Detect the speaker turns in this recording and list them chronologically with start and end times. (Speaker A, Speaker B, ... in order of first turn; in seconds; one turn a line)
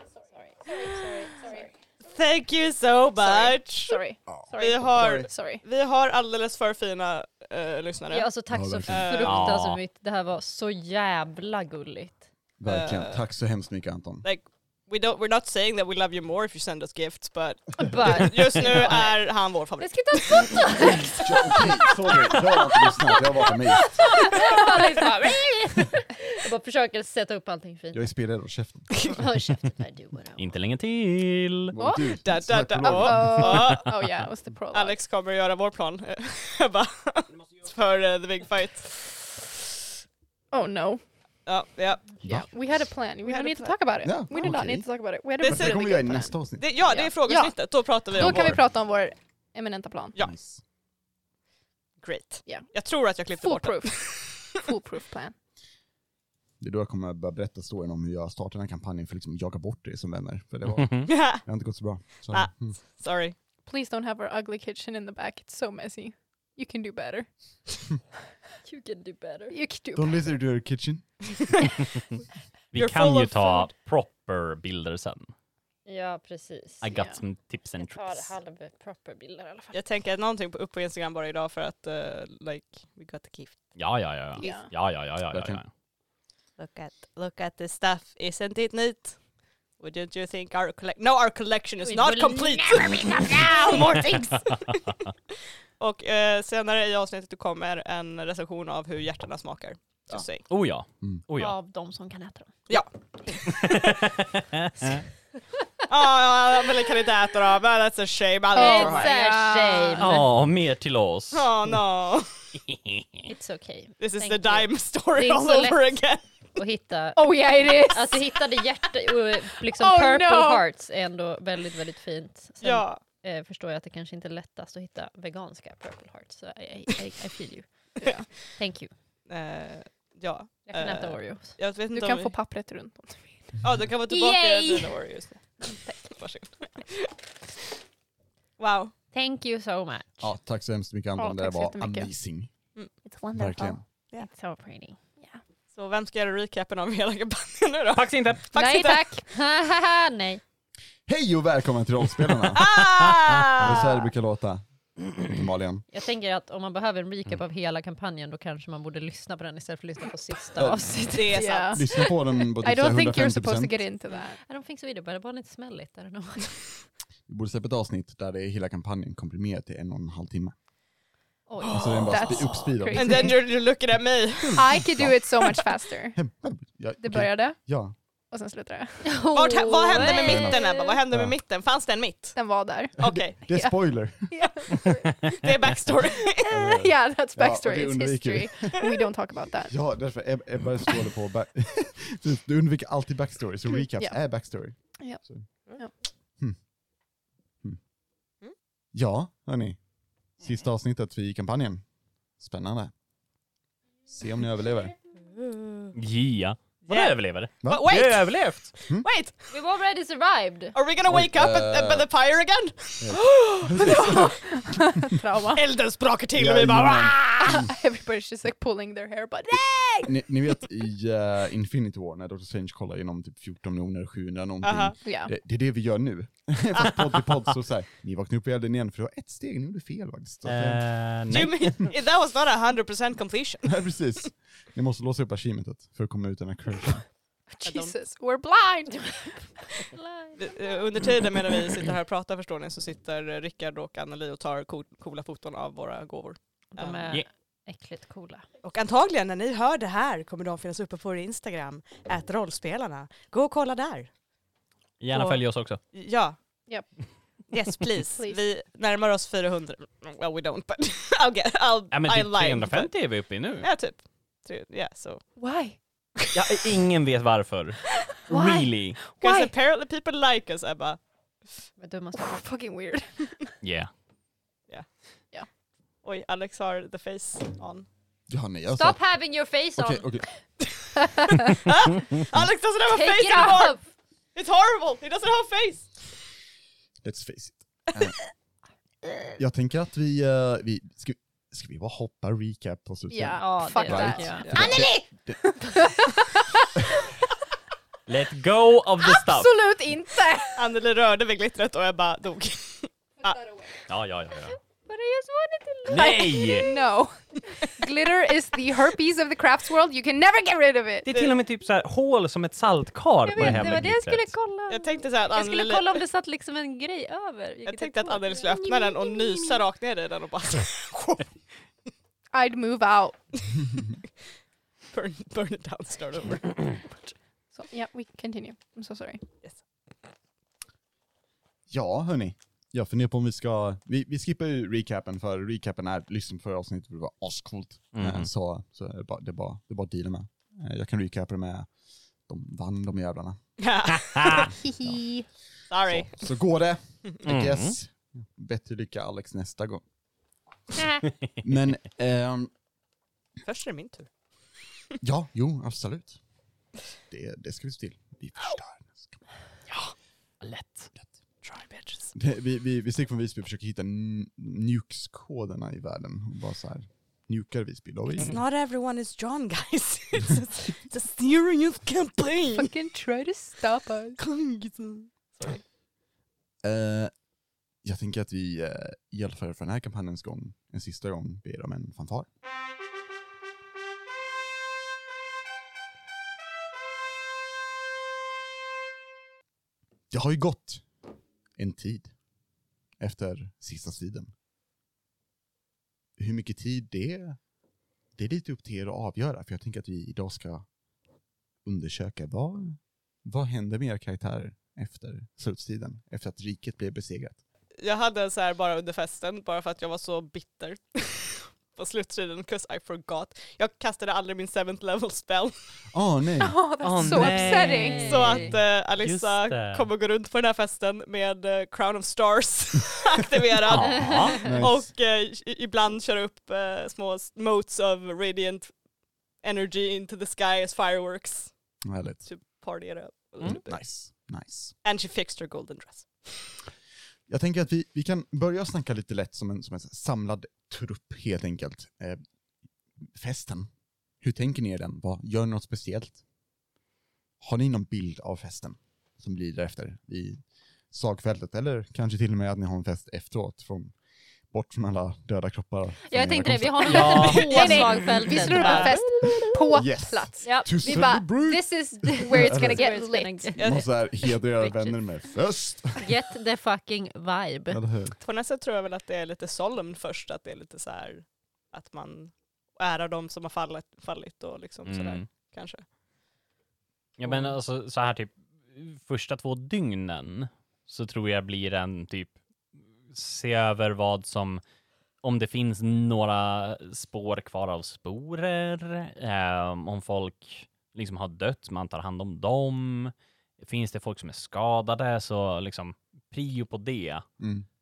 Speaker A: 0.7-1.7
Speaker B: 0.7-4.0
Speaker A: 3.4-5.6
Speaker C: 4.2-5.3
Speaker B: 4.6-8.3
Speaker D: 8.1-12.2
Speaker C: 8.5-9.2
Speaker B: 8.9-9.5
Speaker E: 9.2-9.8
Speaker C: 12.6-14.2
Speaker B: 12.6-13.2
Speaker B: 14.2-20.6
Speaker D: 17.8-19.1
Speaker A: 19.8-22.9
Speaker D: 20.7-21.0
Speaker C: 21.2-24.0
Speaker D: 24.0-28.0
Speaker A: 24.2-24.7
Speaker C: 27.9-29.0
Speaker D: 29.1-30.5
Speaker E: 30.4-31.8
Speaker C: 31.7-33.5
Speaker A: 31.8-32.0
Speaker B: 32.2-33.8
Speaker A: 32.8-35.0
Speaker E: 33.4-33.8
Speaker B: 34.7-39.3
Speaker A: 40.5-41.0
Speaker B: 41.5-42.2
Speaker A: 42.3-47.5
Speaker B: 43.2-43.8
Speaker C: 44.0-44.9
Speaker B: 45.4-46.0
Speaker C: 45.4-46.6
Speaker B: 46.6-48.6
Speaker A: 48.1-50.1
Speaker C: 48.1-48.6
Speaker C: 50.2-50.6
Speaker B: 52.0-54.6
Speaker A: 52.5-52.7
Speaker A: 53.4-55.3
Speaker C: 56.6-62.8
Speaker E: 60.7-61.1
Speaker B: 61.1-61.6
Speaker B: 62.3-63.4
Speaker A: 63.6-67.8
Speaker D: 68.6-69.5
Speaker A: 69.5-70.2
Speaker C: 69.9-71.1
Speaker E: 72.7-75.3
Speaker B: 72.7-73.7
Speaker D: 75.8-77.0
Speaker E: 76.8-78.3
Speaker A: 76.9-77.2
Speaker D: 77.8-79.8
Speaker B: 79.7-84.6
Speaker E: 83.8-85.7
Speaker A: 84.4-84.7
Speaker C: 85.3-85.6
Speaker B: 86.6-94.7
Speaker D: 91.8-94.4
Speaker B: 95.8-100.4
Speaker E: 100.5-101.5
Speaker D: 101.4-102.5
Speaker B: 102.7-103.8
Speaker E: 103.4-105.0
Speaker B: 105.9-109.1
Speaker A: 108.5-110.2
Speaker D: 108.5-110.2
Speaker E: 110.0-111.5
Speaker B: 111.3-112.5
Speaker E: 112.6-113.3
Speaker D: 113.3-116.0
Speaker B: 114.0-116.2
Speaker D: 116.5-128.9
Speaker A: 117.2-118.2
Speaker A: 119.7-120.6
Speaker B: 122.6-123.0
Speaker A: 128.0-128.2
Speaker B: 128.0-128.3
Speaker B: 129.3-132.3
Speaker D: 130.7-131.6
Speaker A: 131.9-133.6
Speaker B: 133.6-137.1
Speaker D: 134.1-134.9
Speaker A: 135.6-136.1
Speaker B: 138.6-138.9
Speaker D: 139.1-140.2
Speaker C: 140.2-142.5
Speaker A: 141.2-142.1
Speaker A: 143.0-143.8
Speaker C: 143.3-143.8
Speaker D: 144.2-145.0
Speaker B: 145.7-149.0
Speaker E: 147.9-148.5
Speaker D: 148.5-150.4
Speaker A: 148.6-149.1
Speaker C: 151.1-152.8
Speaker B: 152.5-153.9
Speaker E: 153.2-153.5
Speaker C: 153.6-155.8
Speaker D: 155.9-161.5
Speaker C: 160.6-161.0
Speaker B: 161.1-161.9
Speaker A: 161.3-164.4
Speaker C: 161.7-163.8
Speaker D: 164.4-166.6
Speaker C: 167.3-170.5
Speaker D: 171.5-171.9
Speaker B: 171.6-174.8
Speaker C: 171.7-173.3
Speaker A: 172.1-173.4
Speaker C: 174.4-175.5
Speaker A: 174.6-176.2
Speaker C: 176.1-177.9
Speaker A: 177.0-177.6
Speaker A: 178.3-179.1
Speaker D: 179.0-180.9
Speaker B: 179.3-182.4
Speaker C: 180.0-180.5
Speaker A: 182.3-185.1
Speaker B: 183.0-183.4
Speaker C: 183.0-184.4
Speaker E: 185.1-185.4
Speaker B: 185.2-186.6
Speaker A: 186.4-189.8
Speaker C: 186.5-188.8
Speaker C: 189.6-195.4
Speaker A: 195.0-195.2
Speaker C: 198.9-199.8
Speaker C: 200.4-201.8
Speaker C: 202.4-202.9
Speaker C: 204.1-204.9
Speaker B: 205.3-205.9
Speaker E: 205.9-208.7
Speaker B: 206.9-209.4
Speaker C: 207.6-207.9
Speaker D: 209.5-210.7
Speaker B: 210.7-213.4
Speaker C: 211.1-212.1
Speaker C: 213.0-215.1
Speaker A: 213.4-215.6
Speaker B: 215.5-217.7
Speaker C: 216.3-217.7
Speaker A: 217.4-220.2
Speaker C: 220.0-231.9
Speaker B: 224.6-224.9
Speaker A: 225.0-225.3
Speaker E: 230.4-231.9
Speaker B: 231.3-233.8
Speaker C: 233.6-237.0
Speaker A: 237.5-239.6
Speaker B: 237.6-238.0
Speaker D: 239.8-240.8
Speaker B: 240.4-247.0
Speaker D: 246.7-248.4
Speaker B: 248.6-254.1
Speaker E: 255.0-255.8
Speaker B: 255.1-255.4
Speaker B: 255.9-256.4
Speaker B: 257.5-265.2
Speaker E: 261.9-263.7
Speaker A: 265.4-265.8
Speaker B: 266.2-266.6
Speaker E: 266.3-269.0
Speaker A: 268.3-269.5
Speaker B: 269.2-271.0
Speaker D: 271.8-272.4
Speaker A: 272.2-273.5
Speaker E: 273.6-273.9
Speaker B: 276.0-277.9
Speaker C: 278.3-279.0
Speaker D: 278.7-280.1
Speaker C: 279.8-280.3
Speaker B: 281.6-283.8
Speaker D: 282.9-283.8
Speaker B: 284.3-286.1
Speaker C: 287.0-288.1
Speaker C: 289.4-296.1
Speaker A: 293.1-296.7
Speaker D: 293.4-294.8
Speaker B: 294.4-294.9
Speaker E: 298.1-299.6
Speaker A: 299.0-300.7
Speaker B: 300.6-303.4
Speaker A: 303.2-303.8
Speaker E: 303.9-304.6
Speaker D: 304.9-306.7
Speaker E: 305.9-306.7
Speaker A: 305.9-311.1
Speaker E: 311.0-314.3
Speaker D: 313.2-318.6
Speaker B: 314.7-316.0
Speaker B: 317.6-321.2
Speaker A: 318.6-319.6
Speaker A: 322.3-323.2
Speaker B: 324.9-326.8
Speaker A: 327.5-329.2
Speaker C: 331.7-341.7
Speaker E: 337.9-338.3
Speaker C: 342.3-343.4
Speaker B: 343.6-344.5
Speaker E: 344.0-344.5
Speaker A: 344.6-345.2
Speaker B: 345.7-346.3
Speaker C: 345.9-349.8
Speaker E: 347.2-347.8
Speaker C: 351.4-352.5
Speaker B: 353.4-354.1
Speaker C: 355.0-356.2
Speaker C: 357.1-359.2
Speaker E: 360.4-360.9
Speaker B: 361.4-362.1
Speaker C: 362.1-368.4
Speaker B: 368.2-372.7
Speaker A: 372.5-374.2
Speaker B: 374.2-375.6
Speaker C: 376.6-377.1
Speaker C: 377.8-382.3
Speaker C: 390.1-390.8
Speaker C: 391.6-392.1
Speaker C: 393.0-394.3
Speaker C: 396.2-397.4
Speaker C: 398.1-400.6
Speaker C: 401.6-407.4
Speaker B: 407.8-415.5
Speaker C: 415.9-416.6
Speaker A: 416.4-418.2
Speaker E: 416.8-419.9
Speaker D: 417.2-418.5
Speaker B: 418.0-428.7
Speaker E: 423.6-424.6
Speaker D: 423.9-424.4
Speaker C: 424.4-424.9
Speaker B: 429.4-431.7
Speaker C: 431.8-432.2
Speaker B: 432.2-433.8
Speaker C: 433.4-434.8
Speaker B: 434.8-436.6
Speaker C: 437.3-442.2
Speaker C: 443.0-443.7
Speaker C: 444.2-446.2
Speaker C: 447.4-453.9
Speaker C: 454.5-457.3
Speaker D: 456.1-459.8
Speaker E: 456.8-457.9
Speaker A: 457.3-463.5
Speaker B: 458.5-459.0
Speaker C: 459.7-462.9
Speaker D: 460.4-463.7
Speaker B: 463.6-463.9
Speaker C: 463.6-466.1
Speaker D: 464.6-465.0
Speaker D: 466.0-467.8
Speaker C: 467.7-468.1
Speaker B: 468.2-475.8
Speaker E: 474.9-475.3
Speaker E: 477.2-482.4
Speaker E: 483.1-484.6
Speaker E: 485.2-497.2
Speaker C: 497.4-497.6